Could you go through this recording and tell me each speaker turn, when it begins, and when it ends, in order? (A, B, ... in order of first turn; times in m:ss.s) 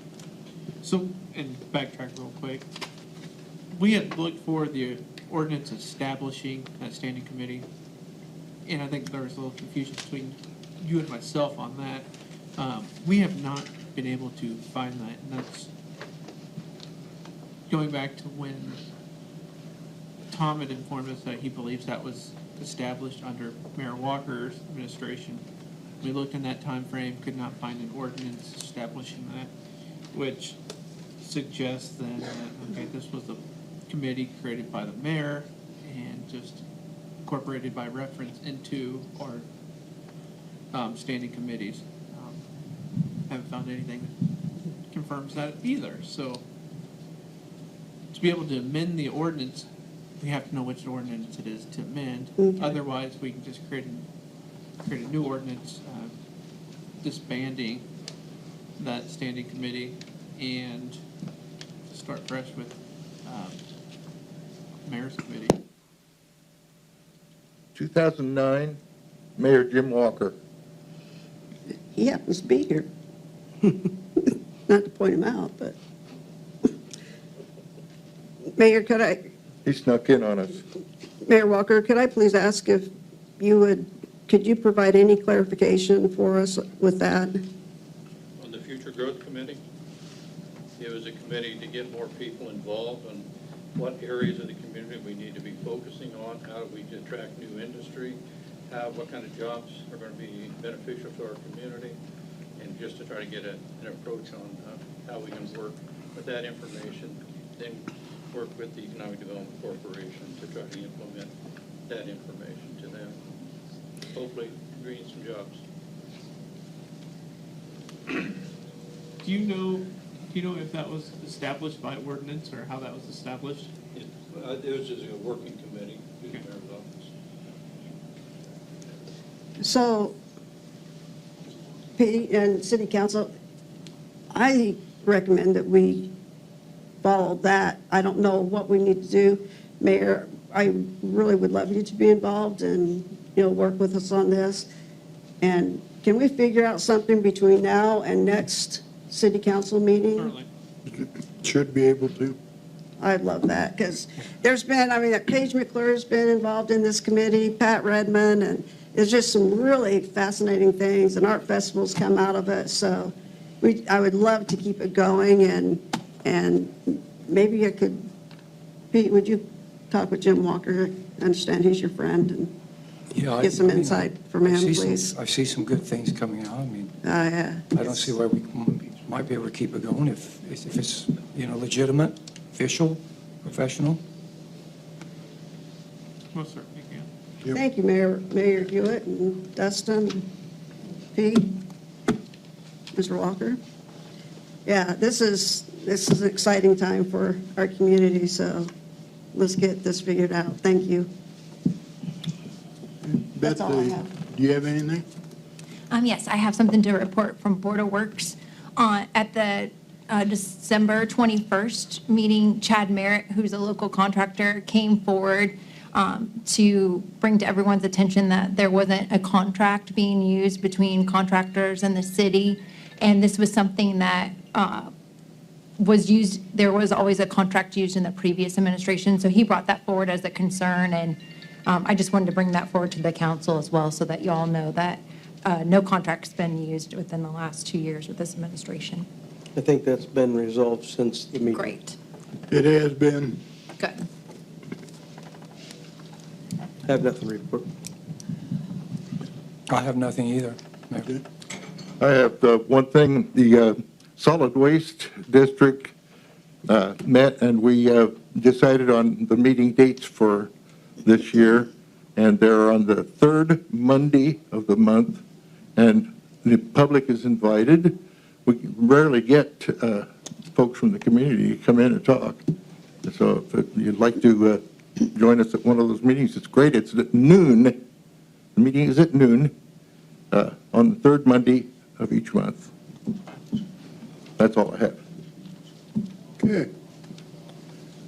0:00.8-0:02.7 A
0:03.7-0:07.6 A
0:08.7-0:15.7 A
0:17.7-0:18.8 A
0:20.3-0:25.4 A
0:26.0-0:29.5 A
0:30.1-0:30.6 A
0:31.2-0:36.6 A
0:37.2-0:39.5 A
0:40.7-0:42.4 A
0:43.3-0:44.1 A
0:44.9-0:46.4 A
0:48.1-0:49.7 A
0:50.2-0:54.0 A
0:52.4-0:52.8 B
0:54.8-0:56.2 A
0:57.0-0:57.8 A
0:58.8-1:01.0 A
1:01.9-1:03.6 A
1:04.8-1:05.6 A
1:07.8-1:08.8 C
1:09.4-1:10.4 C
1:12.0-1:12.9 B
1:14.2-1:15.8 B
1:18.6-1:19.2 B
1:19.6-1:20.6 C
1:21.2-1:27.4 B
1:28.4-1:29.6 D
1:30.8-1:38.2 D
1:38.7-1:42.0 D
1:42.6-1:51.3 D
1:51.9-1:53.2 D
1:54.1-1:55.6 D
1:59.2-2:03.7 A
2:03.9-2:07.1 D
2:09.6-2:10.2 B
2:12.0-2:13.3 B
2:14.3-2:16.1 B
2:17.0-2:24.7 B
2:25.4-2:30.3 B
2:30.2-2:30.5 A
2:30.9-2:32.4 E
2:33.0-2:48.1 B
2:48.9-2:52.5 B
2:53.1-2:56.9 F
2:53.4-2:55.1 B
2:57.0-2:57.7 B
2:57.7-3:04.0 F
3:06.3-3:07.1 A
3:07.5-3:10.3 B
3:11.2-3:11.6 B
3:12.9-3:13.6 B
3:14.7-3:18.7 B
3:19.3-3:21.1 B
3:23.0-3:25.0 E
3:23.4-3:24.1 B
3:25.9-3:44.9 G
3:45.8-3:59.1 G
3:59.6-4:01.6 H
4:01.5-4:02.0 G
4:02.5-4:03.4 E
4:03.8-4:04.1 G
4:06.8-4:07.7 H
4:09.7-4:11.2 F
4:12.0-4:15.9 C
4:16.7-4:20.5 C
4:21.0-4:25.2 C
4:25.8-4:32.4 C
4:33.0-4:37.8 C
4:38.6-4:39.5 C
4:40.3-4:42.7 C
4:44.4-4:45.0 C
4:46.4-4:46.7 E